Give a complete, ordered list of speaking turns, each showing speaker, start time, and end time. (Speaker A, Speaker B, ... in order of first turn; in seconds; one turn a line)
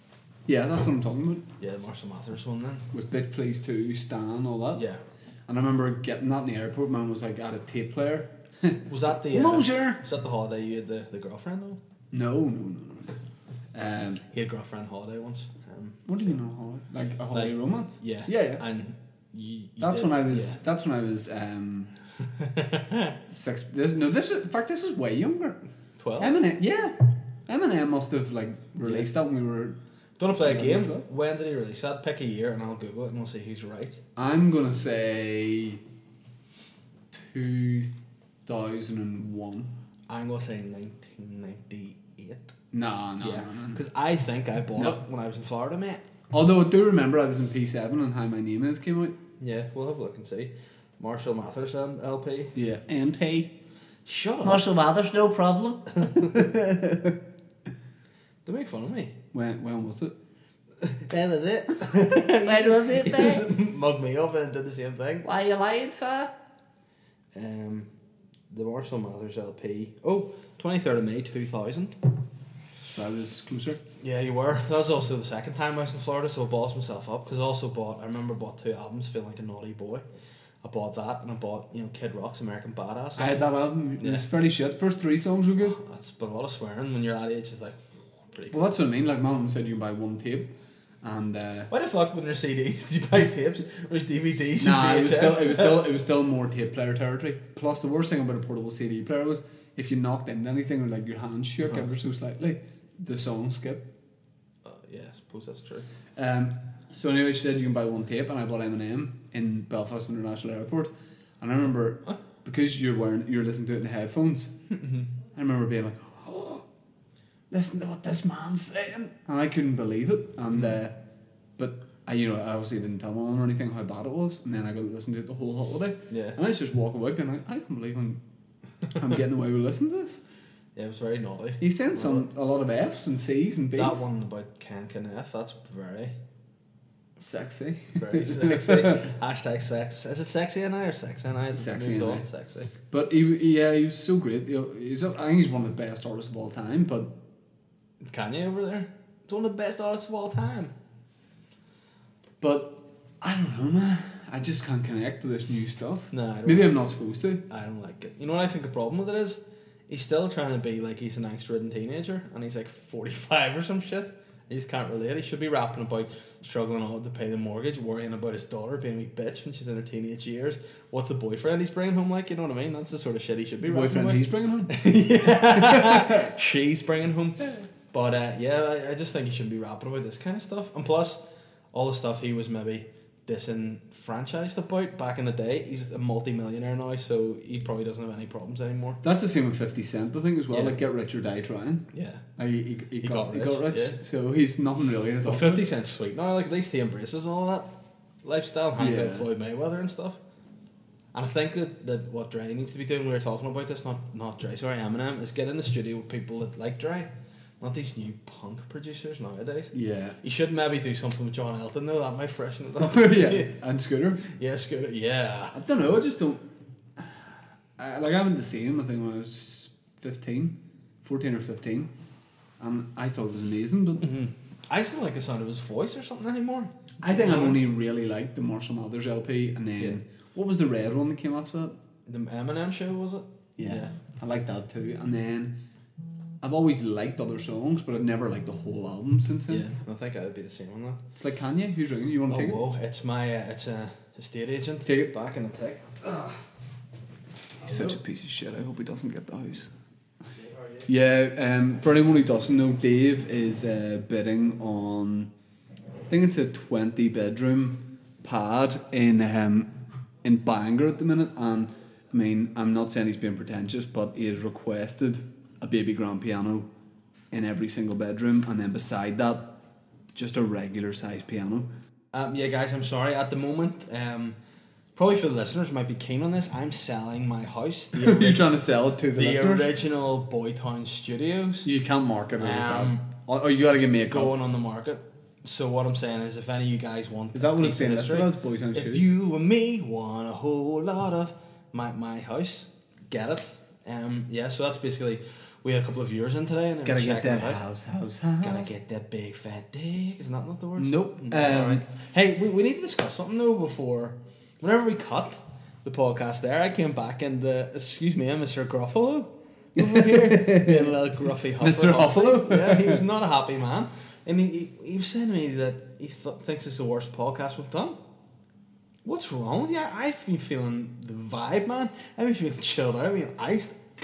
Speaker A: 0.5-1.4
Speaker B: 1.6-2.9
Speaker A: 2.9-4.8
Speaker B: 4.7-5.0
Speaker A: 5.5-10.0
Speaker B: 8.8-11.8
Speaker A: 12.1-13.2
Speaker A: 13.7-14.2
Speaker B: 14.3-16.1
Speaker A: 16.1-18.6
Speaker B: 17.3-20.6
Speaker A: 19.8-21.9
Speaker B: 22.4-23.1
Speaker A: 23.3-25.6
Speaker B: 26.0-26.4
Speaker A: 26.2-29.8
Speaker B: 30.2-34.0
Speaker A: 30.4-31.1
Speaker A: 34.1-35.8
Speaker A: 37.1-37.9
Speaker A: 38.5-39.7
Speaker B: 40.1-42.5
Speaker A: 42.7-43.8
Speaker B: 43.2-46.0
Speaker A: 44.8-45.0
Speaker A: 46.3-49.2
Speaker B: 49.4-52.5
Speaker A: 52.5-53.6
Speaker B: 54.0-54.8
Speaker C: 54.5-55.9
Speaker A: 56.3-57.1
Speaker B: 58.4-59.1
Speaker A: 59.3-60.1
Speaker B: 60.8-65.3
Speaker C: 62.4-63.5
Speaker C: 65.2-66.3
Speaker B: 67.3-67.9
Speaker B: 68.5-72.0
Speaker A: 72.8-73.8
Speaker B: 74.0-80.0
Speaker B: 80.6-84.3
Speaker A: 83.2-85.8
Speaker B: 85.6-87.8
Speaker B: 88.3-88.6
Speaker A: 88.5-91.7
Speaker B: 91.7-95.9
Speaker A: 94.6-103.9
Speaker B: 104.6-105.9
Speaker A: 106.2-114.5
Speaker B: 114.7-115.1
Speaker A: 115.3-116.7
Speaker A: 117.5-121.0
Speaker A: 121.6-128.2
Speaker B: 126.1-126.4
Speaker A: 128.9-130.2
Speaker B: 130.8-132.3
Speaker A: 131.6-134.1
Speaker B: 133.7-136.2
Speaker A: 137.2-139.0
Speaker B: 137.9-142.7
Speaker A: 141.5-142.2
Speaker A: 142.9-147.2
Speaker B: 148.0-150.7
Speaker A: 152.4-157.4
Speaker B: 156.1-156.9
Speaker B: 157.4-181.2
Speaker A: 173.6-176.2
Speaker B: 181.7-189.0
Speaker A: 189.0-195.6
Speaker B: 190.5-190.8
Speaker B: 191.9-192.2
Speaker B: 193.0-194.0
Speaker B: 195.2-197.7
Speaker B: 198.2-200.2
Speaker A: 198.8-199.3
Speaker B: 201.1-213.5
Speaker A: 209.7-210.2
Speaker A: 212.8-214.2
Speaker B: 214.2-215.6
Speaker A: 215.5-216.4
Speaker A: 217.0-221.9
Speaker A: 222.6-224.1
Speaker B: 224.0-227.6
Speaker A: 227.0-231.8
Speaker B: 232.1-233.9
Speaker A: 233.6-235.6
Speaker A: 236.4-239.7
Speaker B: 239.5-241.0
Speaker A: 241.1-242.6
Speaker B: 242.3-246.4
Speaker A: 244.8-245.1
Speaker B: 247.6-247.9
Speaker A: 247.6-249.7
Speaker A: 250.8-255.3
Speaker A: 256.1-266.7
Speaker A: 267.3-269.6
Speaker A: 270.1-271.7
Speaker B: 272.1-274.4
Speaker B: 274.9-278.6
Speaker A: 277.9-279.7
Speaker B: 279.1-281.7
Speaker A: 281.6-284.4
Speaker B: 282.4-283.1
Speaker B: 283.8-297.6
Speaker A: 287.3-289.1
Speaker A: 296.8-298.8
Speaker B: 298.4-318.0
Speaker A: 300.8-301.8
Speaker A: 309.8-310.9
Speaker A: 311.6-313.0
Speaker B: 319.0-323.8